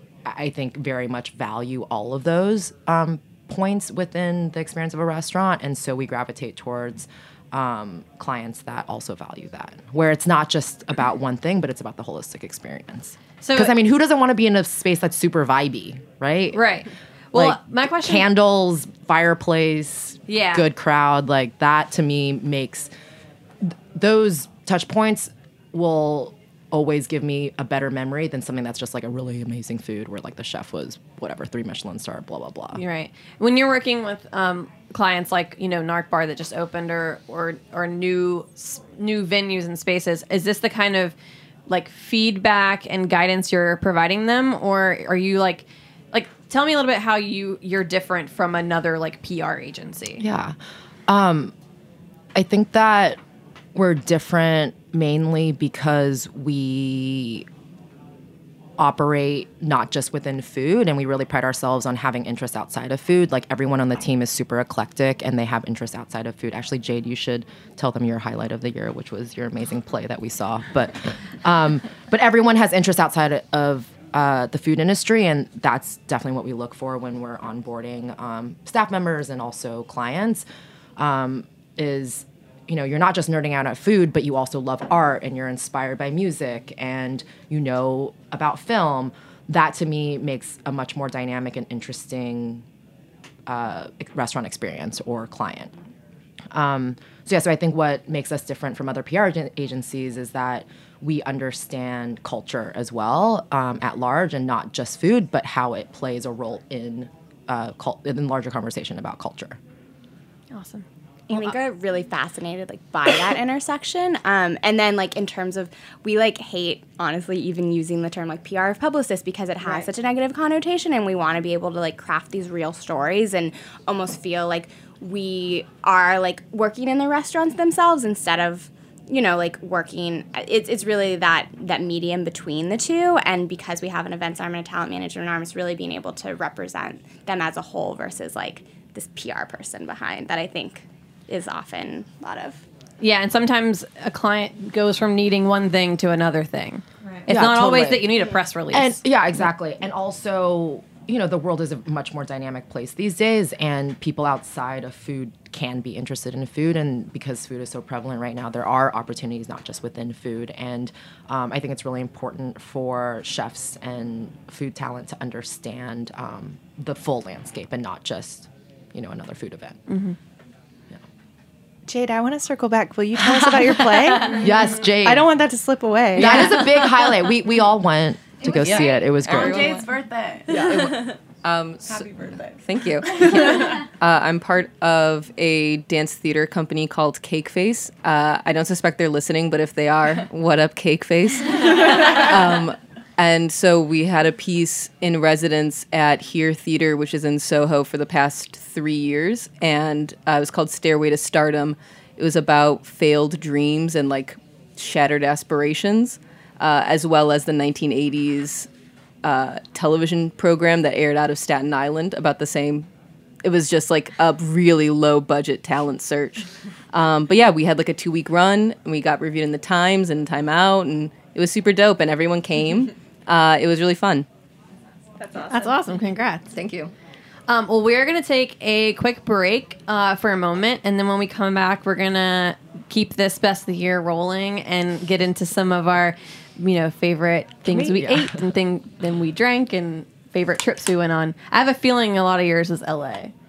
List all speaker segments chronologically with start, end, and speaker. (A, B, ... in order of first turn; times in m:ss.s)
0:00.2-0:16.7 A
0:13.4-0:13.8 B
0:16.5-0:18.3 B
0:17.3-0:22.9 A
0:20.3-0:20.7 B
0:23.7-0:32.8 A
0:32.7-0:41.2 B
0:41.7-0:50.2 B
0:50.2-0:50.6 A
0:51.1-0:51.5 A
0:52.4-0:53.2 A
0:53.8-0:57.5 A
0:58.8-1:20.4 A
1:21.0-1:32.6 A
1:33.5-1:35.8 A
1:36.5-1:49.6 A
1:50.5-1:51.4 B
1:51.3-2:22.6 C
2:23.0-2:29.0 B
2:27.3-2:49.8 A
2:49.9-2:50.2 B
2:51.9-2:56.6 D
2:54.1-2:55.3 A
2:56.1-2:59.8 A
2:58.4-3:01.2 E
2:58.6-2:59.8 F
3:00.5-3:02.1 F
3:01.8-3:03.8 E
3:02.6-3:28.7 F
3:29.2-3:32.9 F
3:33.4-3:44.3 F
3:45.2-3:45.7 D
3:45.5-3:46.6 B
3:46.5-3:46.9 F
3:47.5-4:03.3 B
3:57.7-3:58.3 A